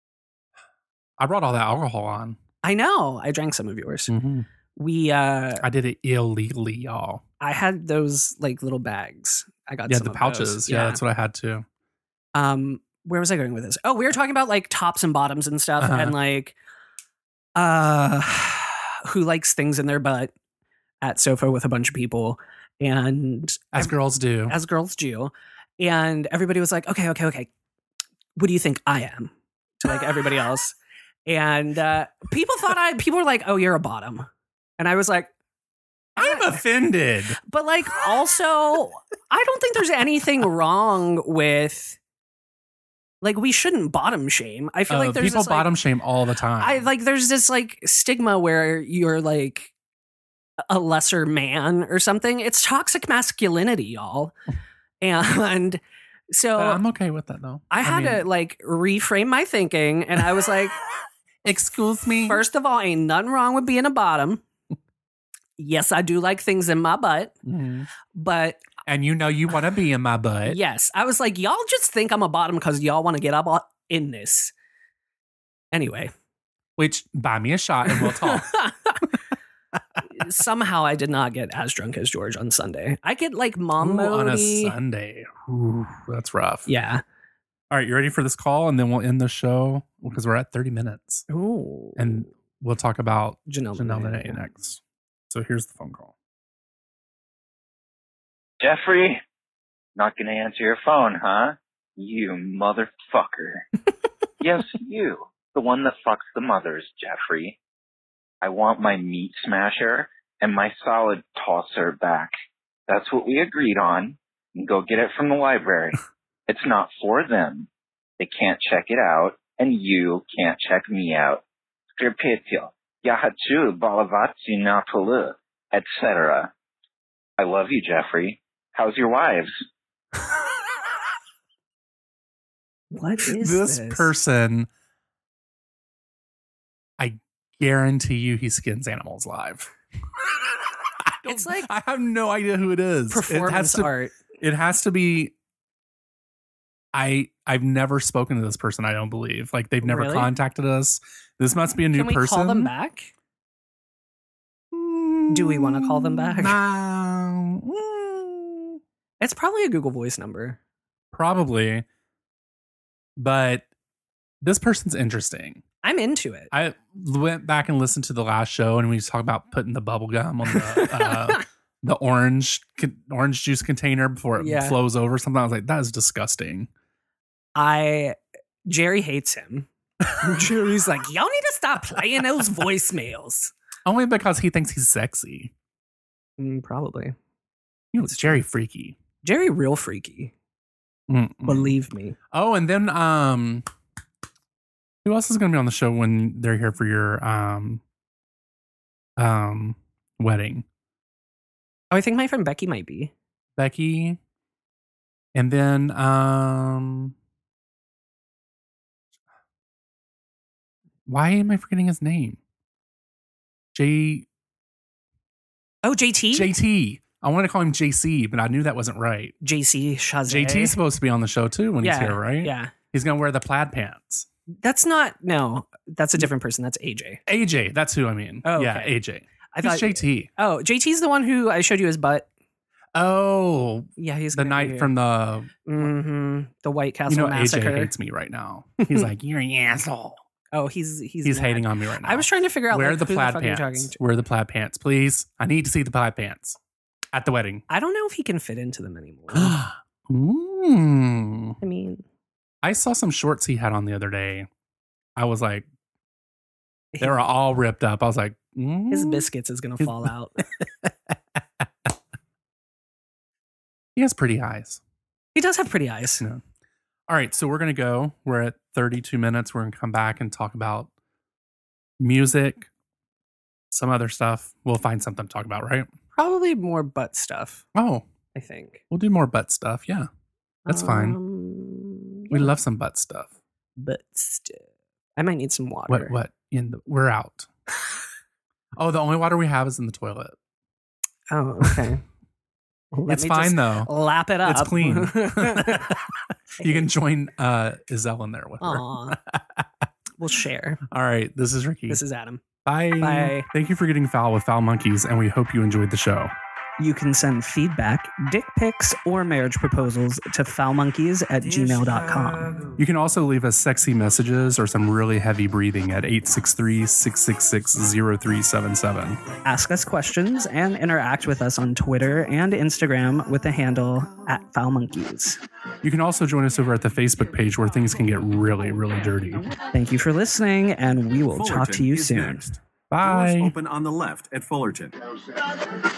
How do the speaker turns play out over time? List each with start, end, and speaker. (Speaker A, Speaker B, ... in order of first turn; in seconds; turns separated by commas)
Speaker A: 1.2-2.4, Speaker B: 2.6-4.1, Speaker A: 4.1-4.5, Speaker B: 4.7-5.6, Speaker A: 5.6-7.2, Speaker B: 7.4-11.0, Speaker A: 9.9-11.6, Speaker B: 12.3-16.6, Speaker A: 15.8-16.2, Speaker B: 17.6-20.3, Speaker B: 21.0-23.9, Speaker A: 23.7-24.5, Speaker B: 24.5-27.5, Speaker B: 28.4-30.7, Speaker B: 31.2-34.3, Speaker B: 34.8-35.3, Speaker B: 36.2-36.5, Speaker A: 36.2-37.4, Speaker B: 37.5-42.0, Speaker B: 43.2-45.7, Speaker A: 44.9-46.9, Speaker B: 46.6-49.7, Speaker B: 50.7-54.3, Speaker B: 55.0-56.8, Speaker A: 56.5-58.2, Speaker B: 57.7-60.8, Speaker A: 61.4-62.4, Speaker B: 62.2-64.4, Speaker B: 65.6-67.3, Speaker A: 67.5-67.9, Speaker B: 68.1-68.6, Speaker A: 68.9-70.6, Speaker B: 70.5-74.5, Speaker B: 75.7-76.1, Speaker A: 76.8-78.6, Speaker B: 77.9-79.0, Speaker B: 80.1-84.8, Speaker A: 83.8-86.7, Speaker B: 86.7-87.0, Speaker A: 87.7-91.3, Speaker B: 91.3-92.3, Speaker A: 92.0-96.1, Speaker B: 93.5-94.4, Speaker C: 98.6-99.2, Speaker C: 100.0-103.7, Speaker C: 104.4-107.6, Speaker C: 108.4-112.3, Speaker C: 112.9-117.7, Speaker C: 118.2-121.4, Speaker C: 121.9-126.5, Speaker C: 127.4-129.5, Speaker B: 132.9-134.1, Speaker A: 133.4-134.7, Speaker A: 137.0-139.7, Speaker A: 141.1-145.3, Speaker B: 141.2-141.7, Speaker B: 143.1-144.2, Speaker A: 146.9-152.7, Speaker B: 149.8-150.3, Speaker B: 151.9-153.1, Speaker A: 154.7-158.8, Speaker B: 155.3-156.6, Speaker B: 159.2-160.6, Speaker A: 161.1-161.8, Speaker A: 163.2-163.7, Speaker A: 164.4-165.6, Speaker B: 165.8-166.5, Speaker A: 166.5-176.7, Speaker B: 170.5-171.4, Speaker B: 174.4-174.8, Speaker B: 177.6-183.5, Speaker A: 183.9-185.5, Speaker B: 186.4-187.2, Speaker A: 187.9-189.0, Speaker B: 188.1-188.4, Speaker B: 189.2-190.3, Speaker A: 191.1-191.8, Speaker B: 191.4-192.2, Speaker A: 192.3-193.6, Speaker A: 195.0-197.8, Speaker A: 199.2-200.6, Speaker B: 201.9-203.1, Speaker A: 203.6-204.2, Speaker A: 205.3-207.1, Speaker A: 211.1-212.4, Speaker A: 213.7-214.2, Speaker B: 215.8-216.5, Speaker A: 216.3-219.3, Speaker B: 219.4-220.8, Speaker A: 220.3-224.3, Speaker B: 221.8-222.7, Speaker B: 224.6-227.2, Speaker A: 227.3-230.3, Speaker B: 228.4-228.9, Speaker B: 229.5-232.3, Speaker A: 232.9-235.9, Speaker B: 234.0-234.9, Speaker B: 235.7-237.9, Speaker A: 237.1-240.2, Speaker B: 238.8-239.1, Speaker B: 240.5-243.9, Speaker A: 241.2-246.6, Speaker A: 247.1-247.6, Speaker B: 247.7-249.6, Speaker A: 249.3-251.6, Speaker B: 251.6-252.0, Speaker A: 252.6-254.5, Speaker A: 255.2-255.6, Speaker B: 256.9-257.2, Speaker A: 257.0-259.3, Speaker B: 258.9-260.4, Speaker A: 263.9-264.8, Speaker B: 265.3-266.2, Speaker A: 267.1-270.9, Speaker A: 272.0-272.7, Speaker A: 273.7-275.9, Speaker B: 276.1-277.6, Speaker A: 277.7-278.0, Speaker B: 278.3-278.8, Speaker A: 278.9-280.1, Speaker B: 280.6-282.5, Speaker A: 280.7-281.2, Speaker A: 282.3-283.3, Speaker B: 283.8-284.6, Speaker B: 285.2-286.1, Speaker A: 285.9-287.5, Speaker A: 288.8-290.3, Speaker B: 291.3-292.0, Speaker B: 292.9-296.0, Speaker A: 293.1-293.9, Speaker A: 294.4-296.1, Speaker B: 296.6-296.9, Speaker A: 296.6-299.6, Speaker B: 298.6-299.1, Speaker B: 300.2-300.8, Speaker A: 300.9-302.0, Speaker B: 301.9-302.4, Speaker A: 302.6-306.3, Speaker B: 303.0-303.5, Speaker B: 306.8-312.5, Speaker D: 311.5-312.6, Speaker A: 312.8-319.2, Speaker B: 319.4-325.4, Speaker A: 325.8-329.4, Speaker B: 329.7-332.5, Speaker D: 331.3-334.9, Speaker A: 332.9-333.5